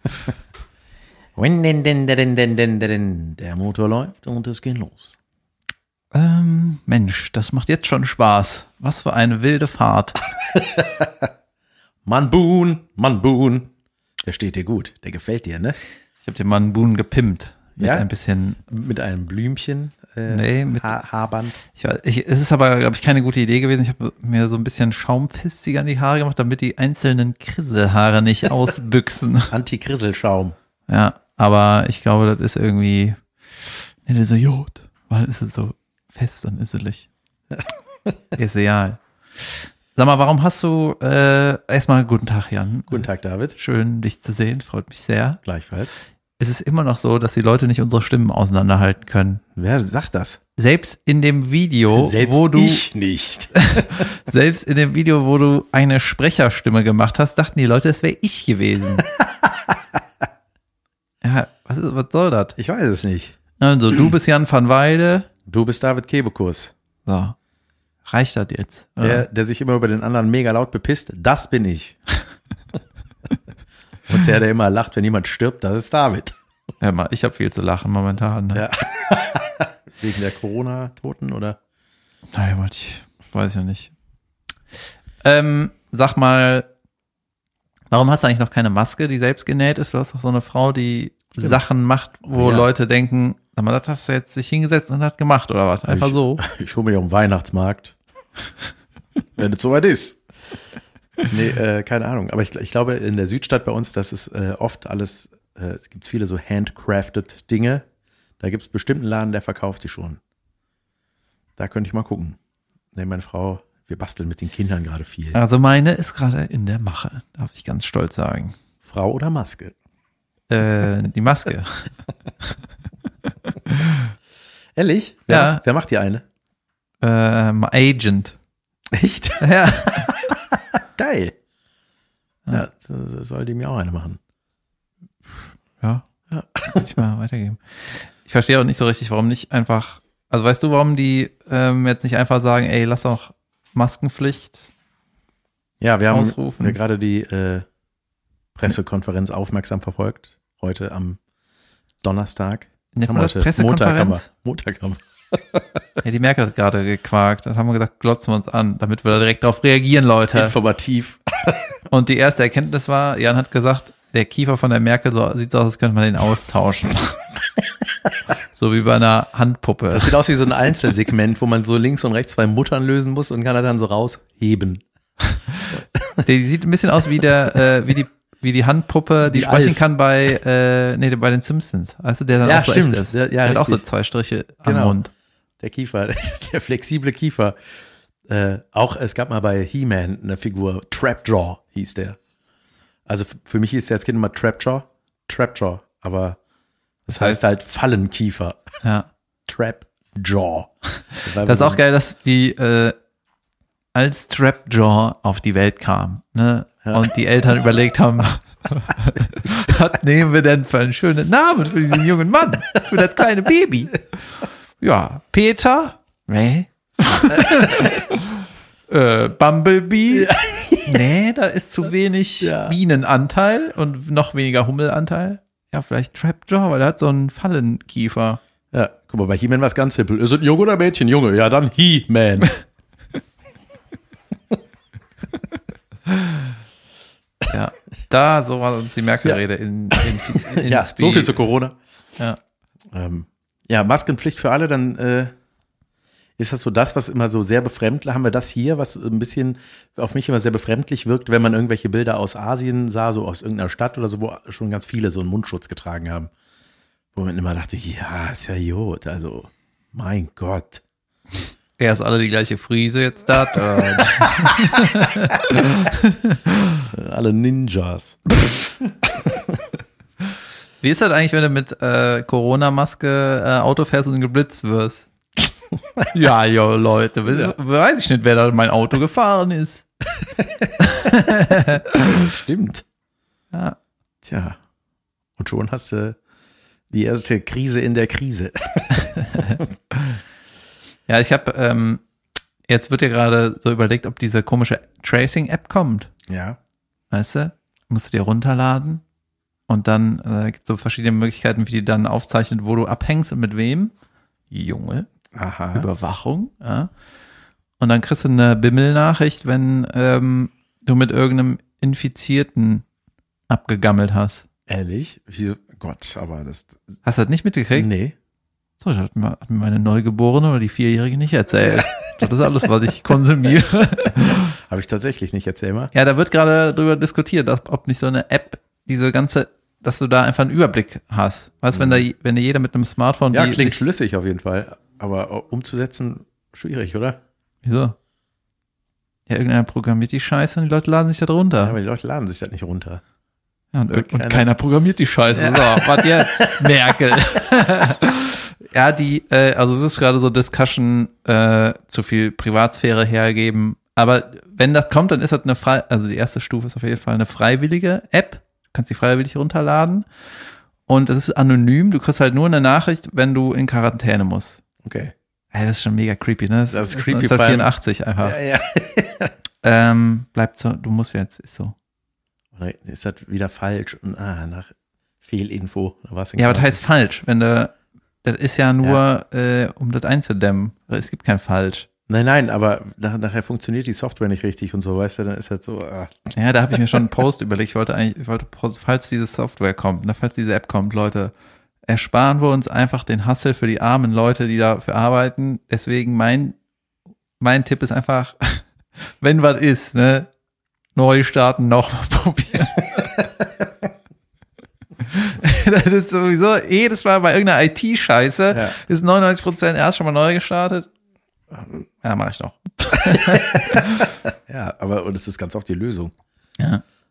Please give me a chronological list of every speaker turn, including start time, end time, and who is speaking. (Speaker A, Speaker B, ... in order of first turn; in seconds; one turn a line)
Speaker A: 1.4-5.2
Speaker B: 6.1-10.2
Speaker A: 10.5-11.3
Speaker A: 12.1-13.7
Speaker A: 14.2-15.8
Speaker B: 16.2-18.6
Speaker A: 17.8-18.1
Speaker A: 18.7-21.6
Speaker B: 20.3-21.0
Speaker B: 21.7-29.5
Speaker A: 29.5-30.6
Speaker B: 30.9-33.2
Speaker B: 34.0-37.1
Speaker B: 38.4-45.4
Speaker A: 42.9-43.6
Speaker A: 45.5-46.0
Speaker B: 46.4-49.4
Speaker A: 49.5-50.4
Speaker B: 50.6-52.9
Speaker A: 51.9-54.1
Speaker B: 53.6-59.1
Speaker B: 61.2-62.5
Speaker A: 62.6-63.4
Speaker B: 63.6-65.3
Speaker A: 65.5-66.7
Speaker B: 67.1-67.4
Speaker B: 68.0-69.3
Speaker A: 69.0-72.0
Speaker A: 74.1-76.3
Speaker B: 76.8-78.7
Speaker A: 78.5-81.6
Speaker B: 82.3-83.9
Speaker B: 85.2-86.7
Speaker B: 87.9-96.4
Speaker A: 92.3-92.7
Speaker A: 95.9-98.0
Speaker A: 99.4-100.2
Speaker A: 101.3-107.8
Speaker A: 108.4-110.2
Speaker A: 111.6-112.4
Speaker A: 113.0-115.4
Speaker B: 115.3-118.6
Speaker A: 118.8-119.7
Speaker B: 120.5-121.9
Speaker B: 123.5-124.1
Speaker A: 124.8-126.2
Speaker B: 125.3-125.6
Speaker B: 127.0-128.4
Speaker A: 128.9-131.3
Speaker B: 129.4-130.2
Speaker A: 132.5-134.2
Speaker B: 135.8-136.1
Speaker A: 136.3-136.9
Speaker B: 136.7-137.6
Speaker B: 138.2-144.6
Speaker A: 145.8-147.7
Speaker B: 146.1-146.8
Speaker A: 148.6-151.2
Speaker A: 152.0-155.6
Speaker B: 152.9-154.3
Speaker B: 156.0-160.6
Speaker A: 160.3-161.6
Speaker B: 161.9-167.2
Speaker B: 168.5-170.1
Speaker A: 169.9-174.8
Speaker A: 175.8-176.2
Speaker B: 176.2-185.1
Speaker A: 179.2-179.8
Speaker A: 182.4-183.8
Speaker A: 184.6-185.0
Speaker A: 185.6-187.6
Speaker A: 188.3-192.2
Speaker A: 193.1-196.4
Speaker A: 197.1-198.6
Speaker B: 197.2-197.5
Speaker B: 198.8-199.1
Speaker A: 199.5-201.8
Speaker B: 201.4-202.9
Speaker B: 203.9-214.1
Speaker A: 206.8-207.1
Speaker B: 214.8-220.3
Speaker A: 217.4-217.9
Speaker A: 220.1-221.0
Speaker B: 220.9-228.4
Speaker A: 222.4-222.8
Speaker A: 228.7-232.5
Speaker B: 236.1-236.4
Speaker B: 237.5-241.3
Speaker A: 239.9-241.8
Speaker A: 242.9-245.3
Speaker A: 246.4-256.3
Speaker A: 257.1-260.8
Speaker B: 261.8-266.8
Speaker A: 266.9-268.7
Speaker A: 269.2-269.5
Speaker B: 270.8-275.1
Speaker B: 276.1-279.9
Speaker A: 277.3-277.5
Speaker B: 280.8-282.2
Speaker A: 282.0-282.8
Speaker B: 283.5-283.8
Speaker A: 284.2-284.6
Speaker A: 285.4-286.2
Speaker A: 286.9-289.7
Speaker B: 289.3-290.2
Speaker B: 291.1-292.0
Speaker B: 292.7-296.1
Speaker A: 296.3-296.6
Speaker B: 297.1-299.0
Speaker B: 299.7-303.9
Speaker B: 304.5-305.1
Speaker A: 305.3-305.9
Speaker B: 305.8-306.9
Speaker B: 307.8-312.9
Speaker B: 313.5-314.5
Speaker A: 314.7-316.9
Speaker B: 317.1-317.9
Speaker A: 317.7-318.2
Speaker B: 318.8-324.6
Speaker A: 324.4-325.9
Speaker B: 325.9-333.8
Speaker A: 331.7-332.0
Speaker A: 333.3-337.2
Speaker B: 337.6-338.0
Speaker B: 339.3-341.8
Speaker A: 341.6-343.0
Speaker B: 343.7-360.1
Speaker A: 343.9-344.5
Speaker A: 345.3-346.7
Speaker B: 360.9-364.6
Speaker A: 364.8-365.1
Speaker B: 365.5-368.4
Speaker A: 366.7-369.3
Speaker B: 369.6-371.8
Speaker A: 372.6-374.7
Speaker A: 375.2-376.8
Speaker B: 376.4-381.9
Speaker A: 382.1-386.3
Speaker B: 386.3-391.3
Speaker B: 391.9-396.6
Speaker B: 397.4-400.3
Speaker B: 400.9-403.1
Speaker B: 405.1-410.9
Speaker A: 408.5-408.8
Speaker A: 411.5-411.9
Speaker B: 412.0-414.1
Speaker A: 412.9-416.1